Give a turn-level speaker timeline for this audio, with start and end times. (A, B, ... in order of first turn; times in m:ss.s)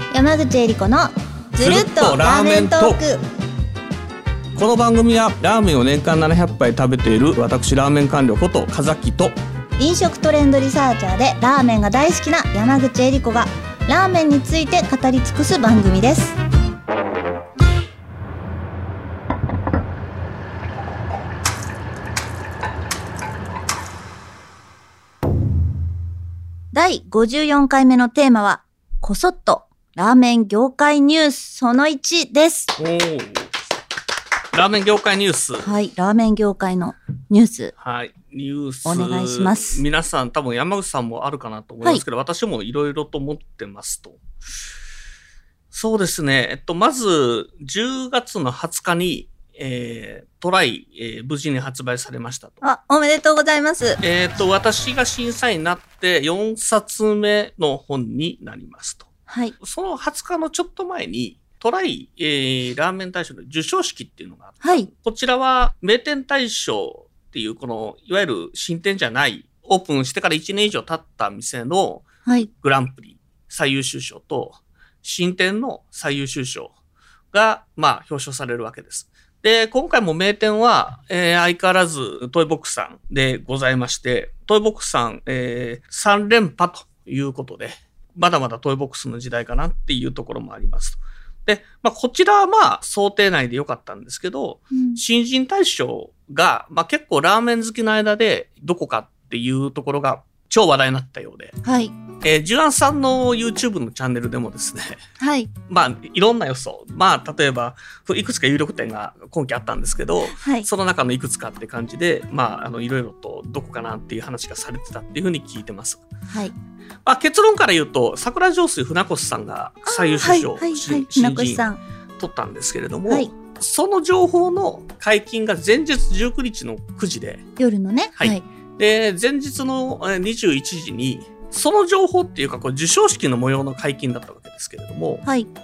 0:00.1-0:03.2 A
0:01.6-0:03.0 B
0:04.6-0:09.3 B
0:09.8-0:16.4 A
0:26.7-0:32.8 A
0:32.8-0:33.5 B
0:34.5-0:35.8 B
0:35.6-0:37.7 A
0:37.8-0:44.2 B
0:38.8-0:39.8 A
0:45.7-0:52.6 B
0:52.6-0:54.0 A
0:54.0-0:59.1 B
0:59.3-0:59.6 A
0:59.6-1:16.7 B
1:04.6-1:04.9 A
1:17.3-1:41.6 B
1:34.7-1:35.0 A
1:41.6-1:41.9 A
1:42.2-1:45.0 B
1:45.2-1:45.5 A
1:45.7-1:56.0 B
1:50.4-1:50.7 A
1:57.0-2:01.6 B
1:59.9-2:01.8 A
2:02.2-2:07.4 B
2:07.6-2:08.4 A
2:08.2-2:15.2 B
2:15.2-2:15.5 A